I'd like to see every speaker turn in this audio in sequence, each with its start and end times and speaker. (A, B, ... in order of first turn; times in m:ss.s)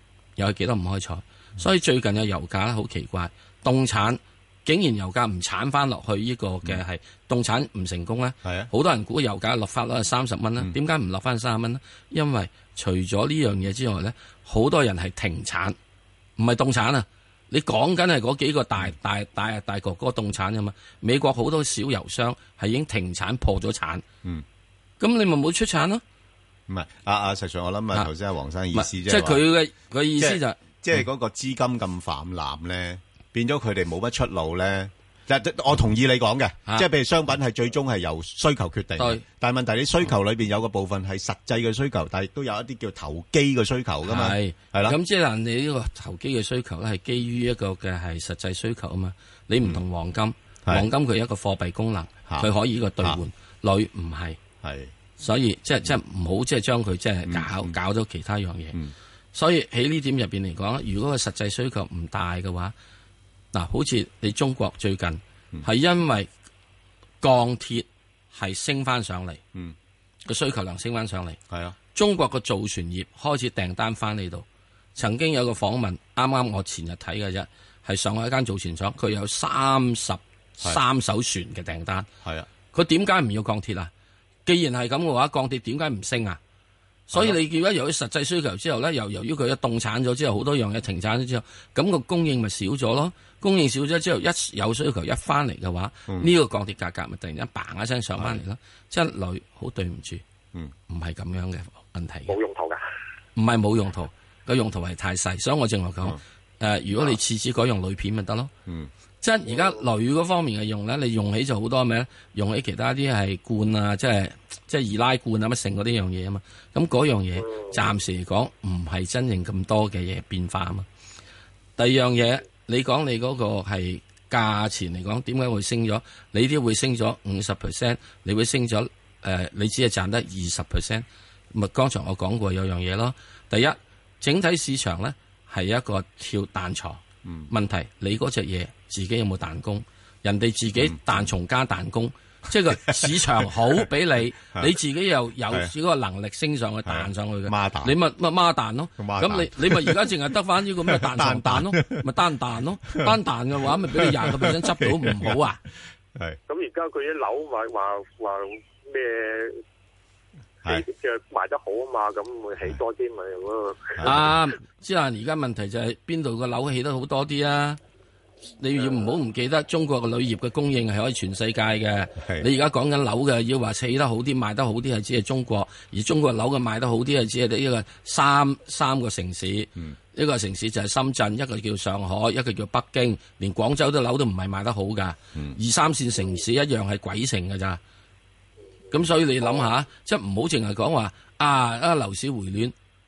0:00.4-0:15.8 A
0:08.4-0:08.7 B
0:16.4-0:24.0 A
0:25.0-0:26.0 A
0:26.7-0:29.4 B
0:28.7-0:30.6 A
0:30.2-0:45.0 B
0:39.0-0:39.2 A
0:44.0-0:54.4 A
0:54.6-0:54.9 B
0:55.2-0:58.8 A
0:57.3-0:57.7 B
0:59.3-1:02.7 A
1:03.5-1:06.3 A
1:07.2-1:09.4 A
1:10.2-1:11.4 A
1:11.5-1:11.8 B
1:11.9-1:22.1 A
1:22.7-1:23.9 A
1:24.4-1:26.4 A
1:27.1-1:40.2 A
1:27.1-1:27.4 B
1:40.9-1:42.4 A
1:42.3-1:42.8 C
1:43.4-1:48.5 A
1:49.2-2:00.8 A
2:01.8-2:35.6 A
2:17.2-2:17.5 B
2:20.8-2:21.2 B
2:22.7-2:23.1 B
2:26.8-2:28.0 B
2:29.0-2:30.1 B
2:30.9-2:32.0 B
2:33.9-2:35.4 B
2:36.5-2:39.6 C
2:40.6-2:44.0 C
2:44.0-2:44.3 B
2:44.0-2:47.8 A
2:48.6-3:07.8 A
2:52.2-2:52.5 B
3:08.9-3:12.7 A